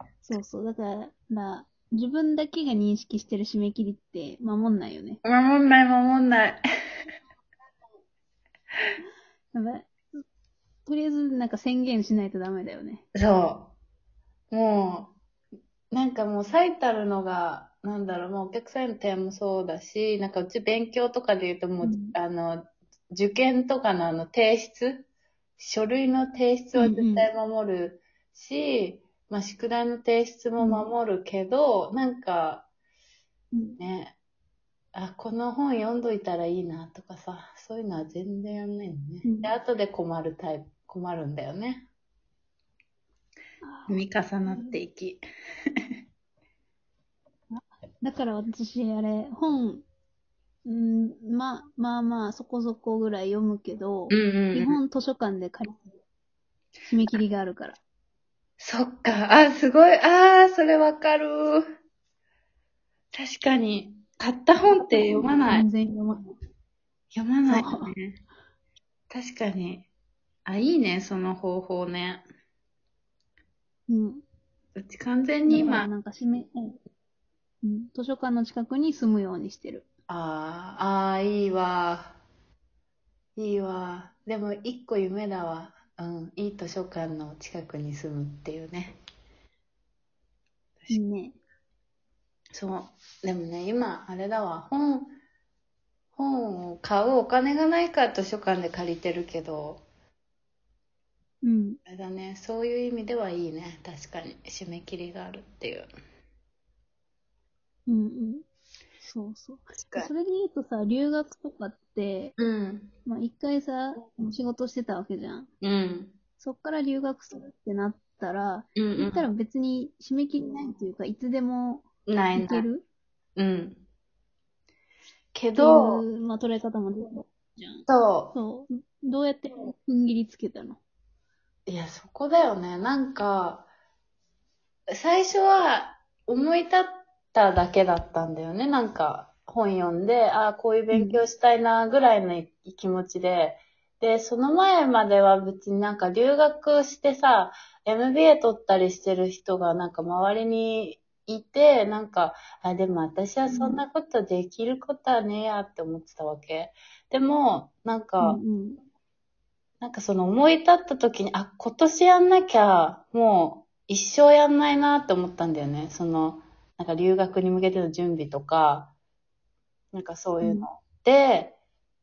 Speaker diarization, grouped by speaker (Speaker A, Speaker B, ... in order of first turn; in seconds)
Speaker A: 0.2-5.2, 9.5-10.1, 10.8-13.0, 21.8-22.1, 26.7-27.3, 30.6-30.9, 33.5-33.8, 39.2-39.5, 43.6-44.8, 47.5-49.8, 50.6-55.9, 56.9-57.8, 65.5-66.3, 67.5-67.9, 73.9-74.2, 75.5-76.8, 77.6-79.8, 90.9-91.4, 101.4-101.8, 107.9-108.4, 109.0-112.3, 113.0-115.5, 116.4-122.8, 125.5-130.8, 140.9-141.2, 153.5-153.8, 158.2-158.8
Speaker B: 5.2-6.6, 13.1-13.7, 14.5-15.1, 15.9-25.1, 25.6-32.7, 33.8-34.1, 34.9-41.9, 43.9-45.2, 54.1-54.8, 58.6-61.7, 63.1-65.7, 67.1-68.2, 69.1-69.9, 70.5-72.2, 74.8-75.9, 80.1-82.2, 83.3-89.0, 92.5-95.1, 96.1-99.8, 101.8-105.9, 109.7-110.1, 112.4-112.9, 115.6-116.1, 118.8-119.3, 122.0-122.7, 123.3-123.8, 125.3-126.0, 127.9-128.3, 131.7-133.7, 134.9-158.4, 159.8-168.9, 169.9-171.6